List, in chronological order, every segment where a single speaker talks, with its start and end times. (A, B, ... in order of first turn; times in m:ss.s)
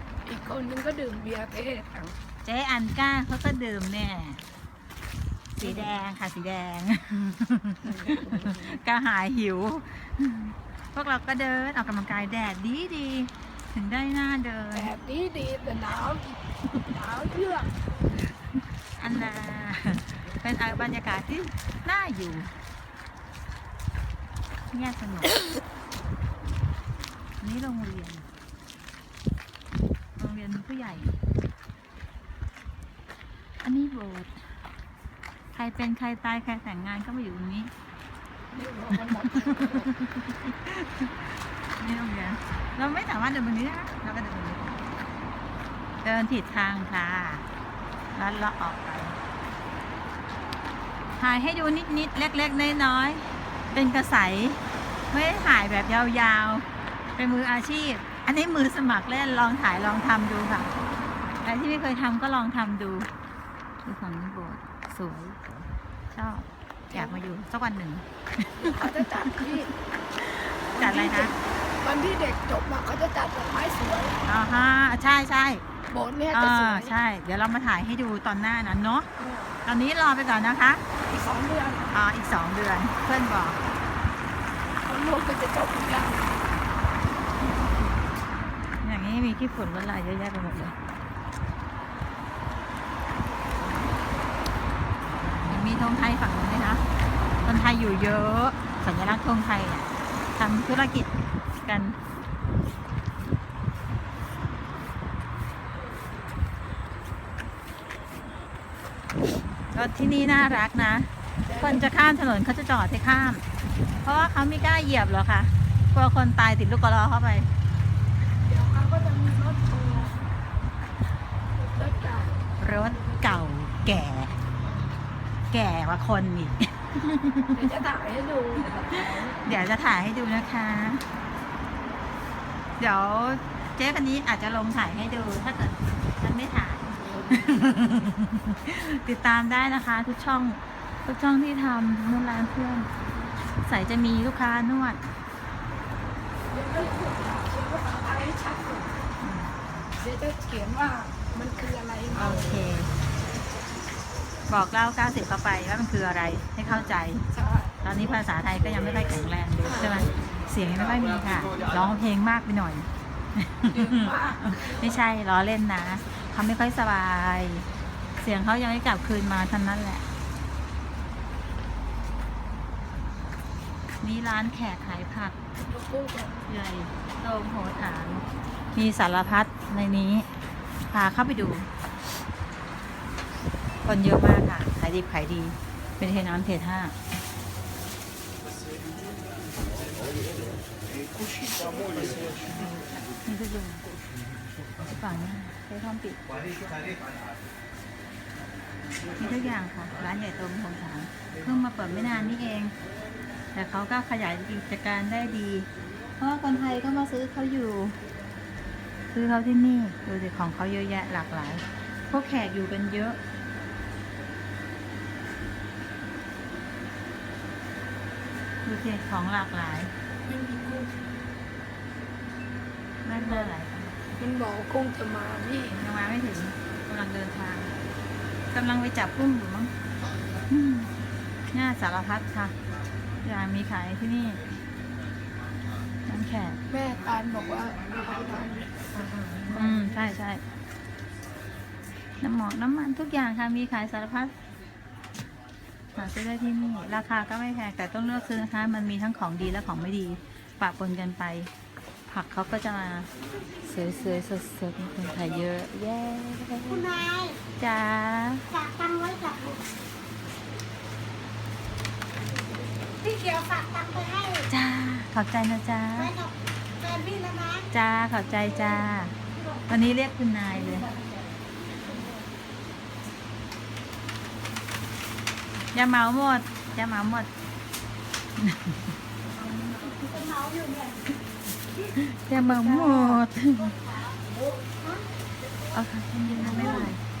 0:00.2-0:02.1 A
0:02.4-0:04.4 B
0:05.6-0:14.9 B
0:05.6-0:05.9 A
0:07.8-0:08.7 A
0:14.7-0:17.7 A
0:19.0-0:22.5 B
0:24.7-0:25.4 B
0:27.4-0:28.2 B
0:30.2-0:31.1 B
0:33.6-0:34.4 B
0:35.5-0:37.7 B
0:38.5-0:39.9 A
0:39.2-0:44.8 B
0:46.0-0:47.4 B
0:48.1-0:49.2 B
0:51.2-0:54.6 B
0:55.1-0:56.6 B
0:57.2-1:00.7 B
1:01.4-1:03.1 B
1:03.8-1:09.5 B
1:06.9-1:07.2 A
1:08.6-1:09.7 A
1:10.2-1:11.3 B
1:10.7-1:14.2 A
1:14.2-1:15.6 B
1:15.9-1:16.9 A
1:16.3-1:19.1 B
1:19.2-1:19.5 A
1:19.6-1:20.8 B
1:21.0-1:21.9 A
1:21.9-1:23.6 B
1:24.8-1:26.4 A
1:28.8-1:30.8 B
1:35.5-1:36.8 B
1:37.4-1:41.1 B
1:41.6-1:42.0 B
1:49.7-1:53.4 B
1:51.5-1:51.9 A
1:54.0-1:57.5 B
1:58.4-2:00.2 A
2:01.6-2:02.4 A
2:02.6-2:04.4 B
2:02.9-2:03.4 A
2:05.5-2:07.6 B
2:07.5-2:09.4 A
2:09.4-2:11.0 B
2:12.8-2:22.9 B
2:23.6-2:25.0 B
2:26.5-2:29.0 A
2:29.2-2:29.6 B
2:30.0-2:32.6 A
2:32.2-2:32.9 B
2:34.5-2:37.2 B
2:37.3-2:37.8 A
2:37.8-2:47.7 B
2:39.7-2:40.0 A
2:43.7-2:44.8 A
2:48.2-2:50.0 B
2:54.0-2:55.3 B
2:55.6-2:56.4 A
2:56.4-3:00.3 B
3:00.9-3:01.7 B
3:03.8-3:06.9 B
3:11.9-3:13.9 B
3:15.0-3:16.2 B
3:19.2-3:22.7 B
3:23.5-3:25.7 B
3:26.2-3:28.0 B
3:29.1-3:33.2 B
3:38.6-3:39.9 B
3:40.2-3:41.0 A
3:43.0-3:44.0 B
3:43.1-3:43.5 A
3:44.2-3:45.8 A
3:45.7-3:47.7 B
3:48.5-3:49.7 B
3:50.5-3:50.9 B
3:51.5-3:52.5 B
3:53.2-3:54.4 B
3:56.1-3:56.6 B
3:56.7-3:59.8 A
3:59.5-4:00.4 B
4:02.2-4:04.3 B
4:05.9-4:11.5 B
4:12.1-4:13.1 B
4:13.6-4:18.5 B
4:18.6-4:19.5 C
4:23.1-4:24.4 C
4:24.4-4:26.2 B
4:26.8-4:27.6 C
4:27.7-4:29.2 B
4:29.7-4:30.9 B
4:35.7-4:37.3 B
4:38.4-4:38.8 B
4:40.3-4:40.9 C
4:41.9-4:43.8 B
4:45.7-4:47.0 B